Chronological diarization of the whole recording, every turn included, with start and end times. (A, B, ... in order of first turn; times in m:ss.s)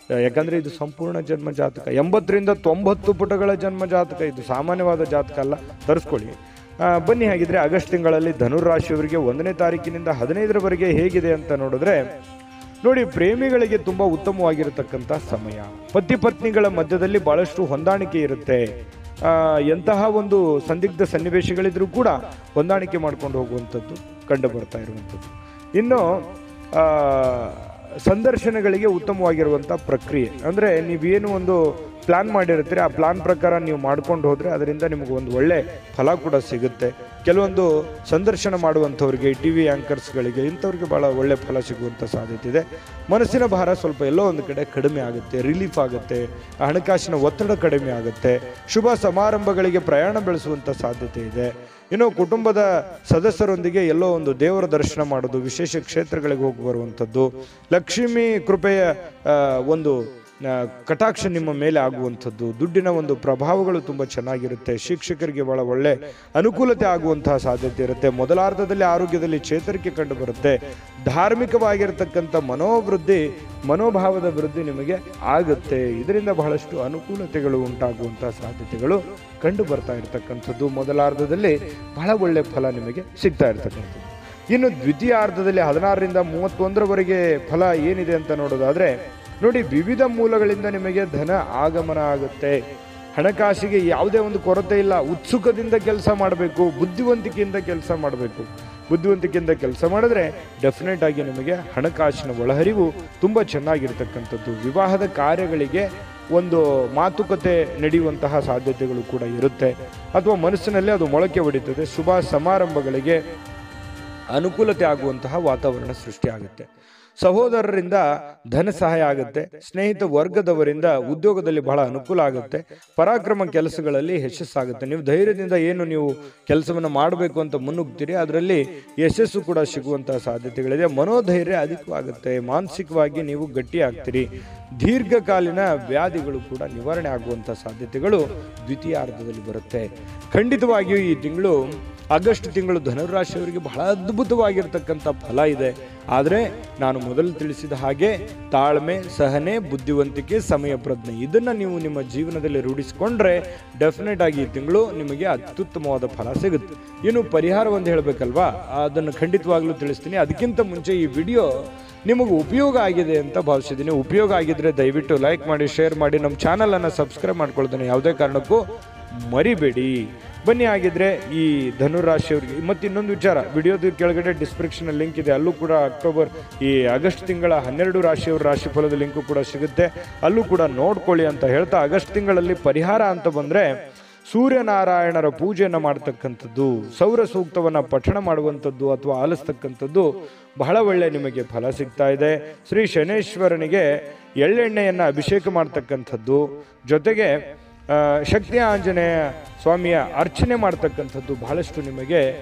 0:00.2-0:12.0 A
0:12.8-0:18.6 A
0:19.2-0:26.1 A
0:26.7-1:32.6 A
1:33.1-1:53.2 A
1:54.3-1:56.6 A
1:57.2-2:14.2 A
2:14.8-2:21.6 A
2:22.1-2:41.5 A
2:42.0-2:48.6 A
2:49.3-3:03.7 A
3:04.3-3:13.9 A
3:14.4-3:17.4 A
3:17.9-3:22.2 A